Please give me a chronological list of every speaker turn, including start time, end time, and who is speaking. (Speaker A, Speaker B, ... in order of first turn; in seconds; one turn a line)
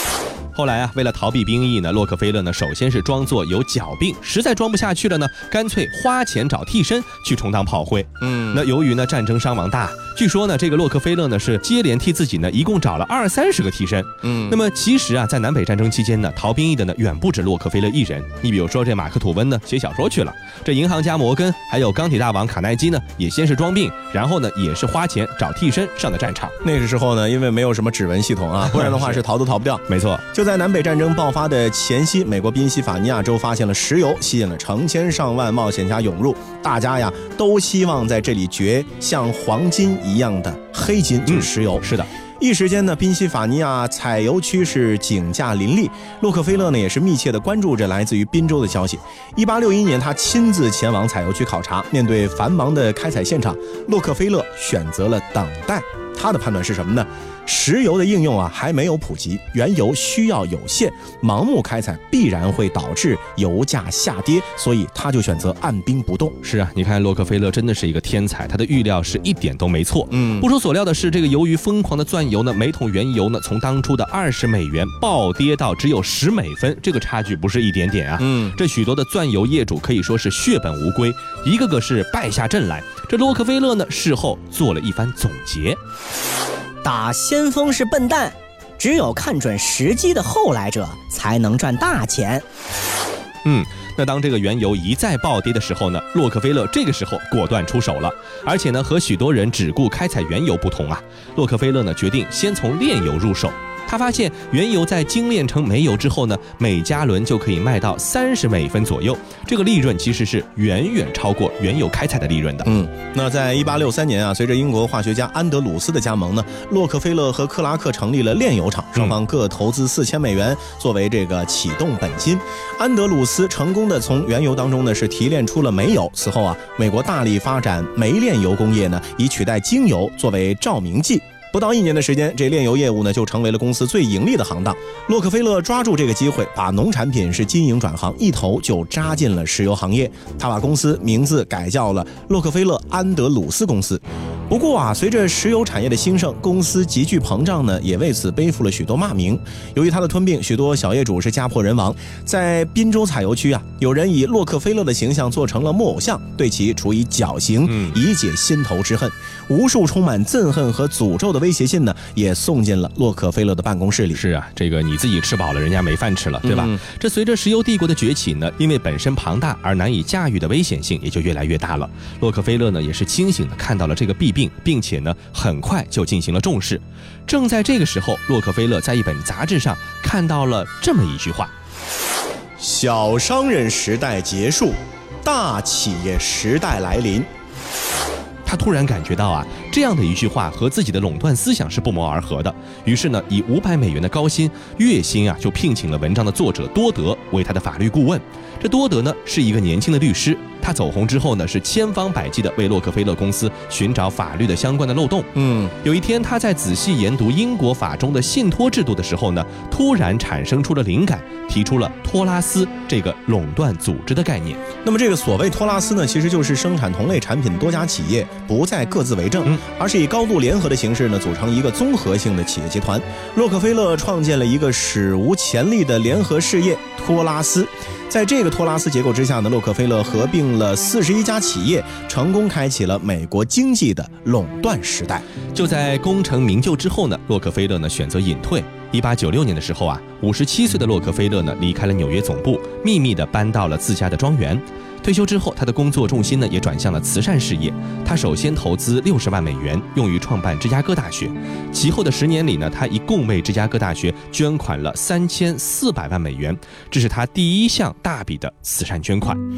Speaker A: 0.6-26.6
Speaker B: 8.2-8.6
Speaker B: 14.2-14.6
Speaker B: 26.6-41.9
Speaker A: 28.7-29.2
Speaker A: 29.9-30.2
Speaker A: 41.3-42.1
Speaker B: 42.4-66.4
Speaker A: 66.4-85.8
Speaker B: 70.1-70.5
Speaker B: 78.2-78.6
Speaker C: 86.8-92.4
Speaker A: 93.5-112.7
Speaker B: 112.7-164.2
Speaker A: 157.7-158.0
Speaker A: 164.1-181.5
Speaker B: 166.4-166.8
Speaker B: 182.6-187.3
Speaker A: 188.4-205.3
Speaker B: 205.3-205.7
Speaker A: 205.8-214.6
Speaker B: 214.8-235.3
Speaker A: 235.5-259.4